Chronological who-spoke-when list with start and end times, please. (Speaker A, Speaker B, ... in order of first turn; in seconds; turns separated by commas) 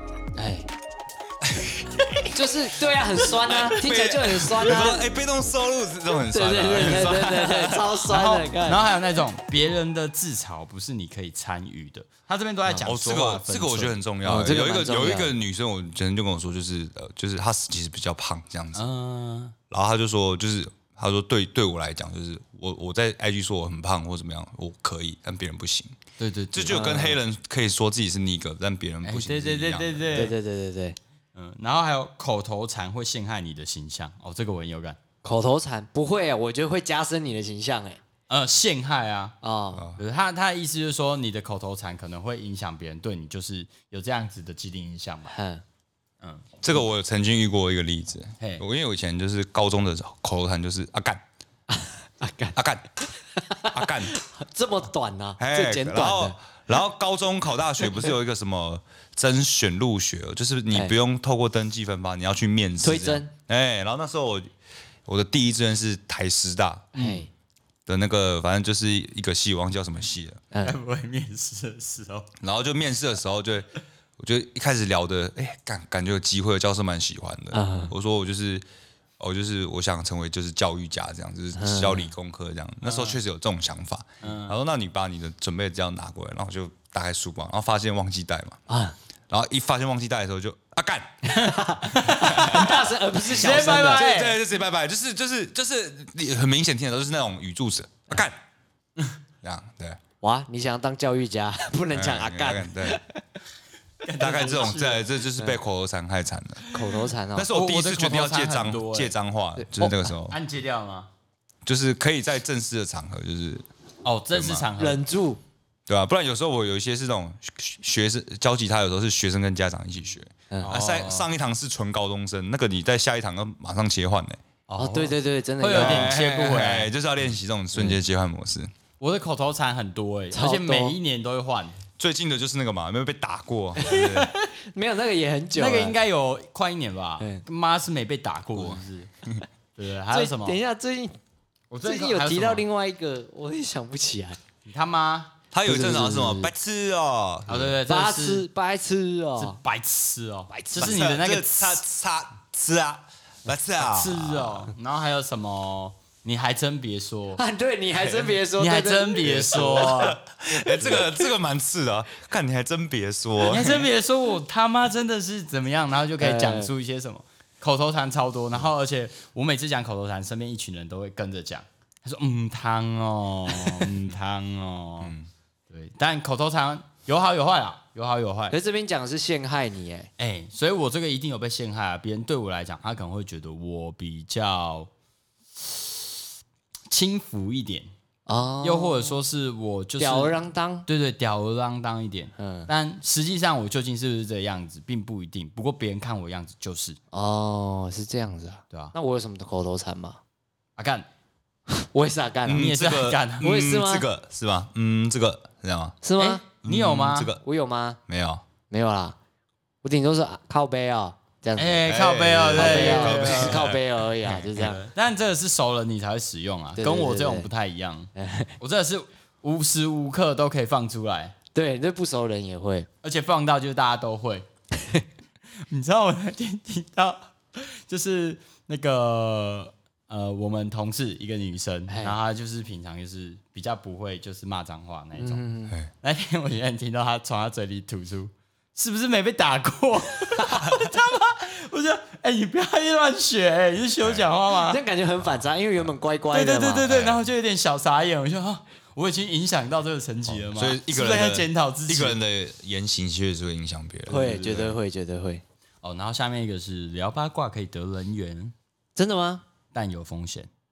Speaker A: 0.4-0.7, Speaker B: 1.4-2.3, Speaker A: 2.3-5.1, Speaker B: 3.1-7.9, Speaker A: 6.2-8.9, Speaker C: 6.7-7.1, Speaker C: 8.1-14.0, Speaker B: 12.8-18.9, Speaker A: 14.2-15.3, Speaker C: 18.8-19.6, Speaker B: 19.7-25.9, Speaker C: 26.2-27.1, Speaker B: 26.5-30.3, Speaker A: 26.7-27.1, Speaker C: 29.0-30.4, Speaker A: 30.1-31.0, Speaker C: 31.4-35.0, Speaker A: 35.2-38.0, Speaker C: 38.3-39.4, Speaker A: 39.4-39.9, Speaker B: 39.7-40.0, Speaker C: 40.0-45.4, Speaker A: 45.3-45.6, Speaker B: 46.6-51.2, Speaker A: 51.7-56.4, Speaker B: 52.5-52.8, Speaker B: 53.7-54.1, Speaker B: 55.4-64.5, Speaker A: 62.8-63.3, Speaker B: 65.1-66.9, Speaker A: 66.9-67.3, Speaker C: 67.0-67.3, Speaker B: 67.9-70.4, Speaker A: 70.5-70.8, Speaker C: 70.6-72.3, Speaker B: 72.4-73.7, Speaker B: 74.2-78.7, Speaker A: 77.5-77.9, Speaker B: 79.2-88.6, Speaker A: 81.6-82.1, Speaker C: 82.8-83.2, Speaker C: 84.2-84.5, Speaker A: 88.7-89.0, Speaker B: 89.3-91.3, Speaker A: 91.3-94.0, Speaker C: 92.0-92.6, Speaker B: 92.2-98.4, Speaker C: 93.3-94.4, Speaker B: 99.4-100.0, Speaker A: 100.2-103.2, Speaker B: 101.9-103.0, Speaker C: 104.0-105.1, Speaker B: 104.2-106.7, Speaker A: 106.7-107.5, Speaker C: 106.7-107.0, Speaker B: 107.3-110.4, Speaker C: 107.5-109.2, Speaker A: 109.6-110.1, Speaker C: 110.3-111.1, Speaker B: 111.7-113.7, Speaker C: 114.0-115.0, Speaker B: 114.3-114.7, Speaker A: 114.8-115.4, Speaker B: 115.9-124.4, Speaker A: 120.5-120.8, Speaker C: 120.6-121.3, Speaker C: 124.7-126.9, Speaker A: 124.8-126.3, Speaker B: 125.7-128.7, Speaker A: 127.7-128.0, Speaker C: 129.0-131.8, Speaker A: 130.3-131.0, Speaker B: 132.0-134.3, Speaker A: 133.8-136.0, Speaker C: 133.8-134.4, Speaker C: 135.6-139.1, Speaker A: 137.2-137.4, Speaker B: 138.5-139.4, Speaker C: 139.8-140.6, Speaker A: 140.1-141.2, Speaker C: 141.7-142.7, Speaker A: 141.8-144.4, Speaker C: 144.7-145.3, Speaker B: 145.5-147.8, Speaker A: 145.7-146.5, Speaker C: 147.5-148.5, Speaker A: 147.9-149.6, Speaker C: 149.4-151.8, Speaker A: 150.5-151.0, Speaker B: 150.8-154.7, Speaker C: 153.8-157.4, Speaker A: 157.4-160.0, Speaker B: 157.9-158.4, Speaker C: 158.6-160.2, Speaker B: 159.2-163.9, Speaker A: 160.9-161.1, Speaker C: 163.4-175.1, Speaker A: 166.2-166.7, Speaker B: 175.0-175.3, Speaker C: 175.7-178.6, Speaker A: 178.5-180.1, Speaker C: 180.2-184.9, Speaker C: 185.6-186.2, Speaker C: 186.9-187.9, Speaker A: 188.3-189.2, Speaker C: 188.6-197.0, Speaker A: 190.0-190.9, Speaker A: 192.4-192.7, Speaker A: 197.1-200.2, Speaker C: 200.8-201.1, Speaker A: 201.7-202.7, Speaker B: 202.5-206.0, Speaker C: 202.6-203.5, Speaker A: 203.4-204.1, Speaker A: 206.0-206.4, Speaker C: 206.2-207.3, Speaker B: 206.7-207.4, Speaker A: 207.4-208.0, Speaker B: 208.1-208.4, Speaker A: 208.7-209.2, Speaker A: 209.8-214.8, Speaker C: 211.6-213.7, Speaker B: 211.9-213.8, Speaker C: 214.2-218.1, Speaker A: 216.8-217.5, Speaker A: 218.2-218.5, Speaker C: 218.6-221.3, Speaker A: 221.6-222.9, Speaker C: 223.0-224.5, Speaker C: 225.7-235.4, Speaker A: 231.9-232.2, Speaker A: 235.2-235.8, Speaker C: 235.9-244.8, Speaker A: 240.4-240.6, Speaker B: 244.0-244.3, Speaker A: 244.5-246.9, Speaker C: 246.3-252.2, Speaker B: 246.8-247.3, Speaker B: 250.3-254.8, Speaker A: 254.1-255.4, Speaker C: 254.1-254.6, Speaker C: 255.8-258.5, Speaker A: 259.0-259.4, Speaker C: 259.7-260.5